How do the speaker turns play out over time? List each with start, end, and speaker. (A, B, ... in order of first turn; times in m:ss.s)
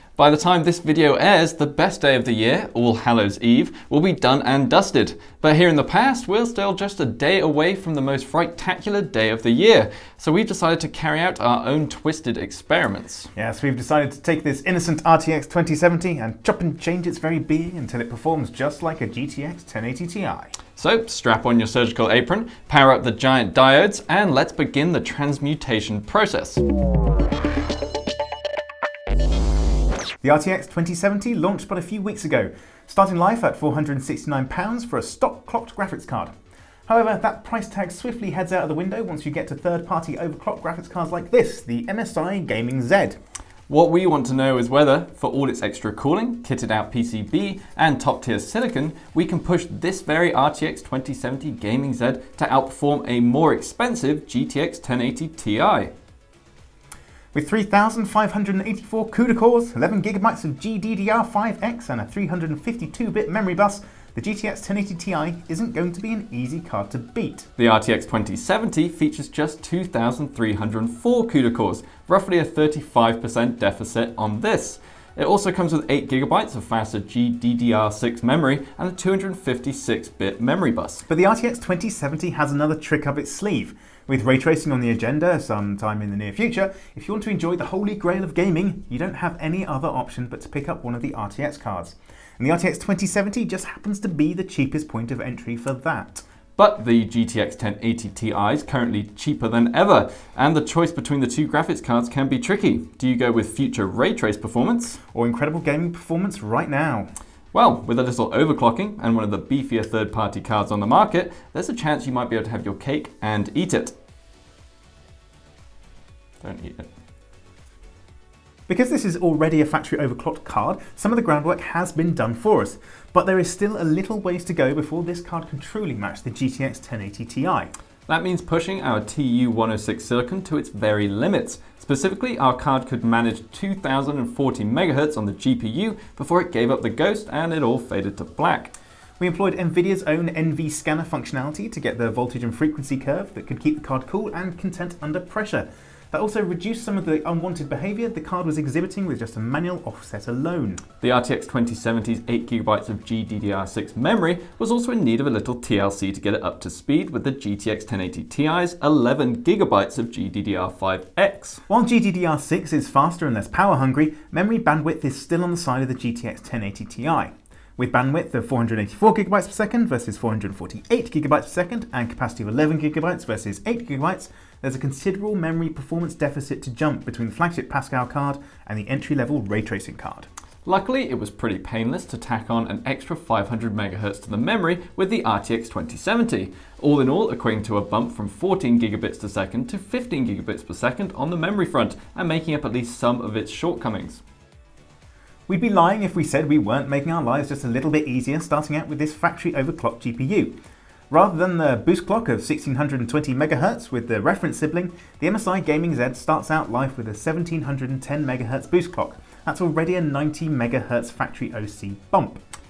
0:00.2-0:13.3 A
0:13.4-0:20.5 B
0:20.8-0:26.6 A
0:30.2-0:36.3 B
0:36.9-0:43.2 B
0:43.7-0:55.9 A
0:57.3-1:07.5 B
1:07.6-1:21.0 A
1:21.1-1:36.2 B
1:36.6-1:45.0 A
1:45.1-1:47.1 B
1:47.5-1:53.9 A
1:56.4-1:56.9 A
1:58.7-2:07.7 B
2:08.1-2:18.7 A
2:19.2-2:30.8 B
2:31.0-2:41.6 A
2:41.7-3:00.3 B
3:00.7-3:14.2 A
3:15.5-3:20.6 B
3:21.1-3:32.4 B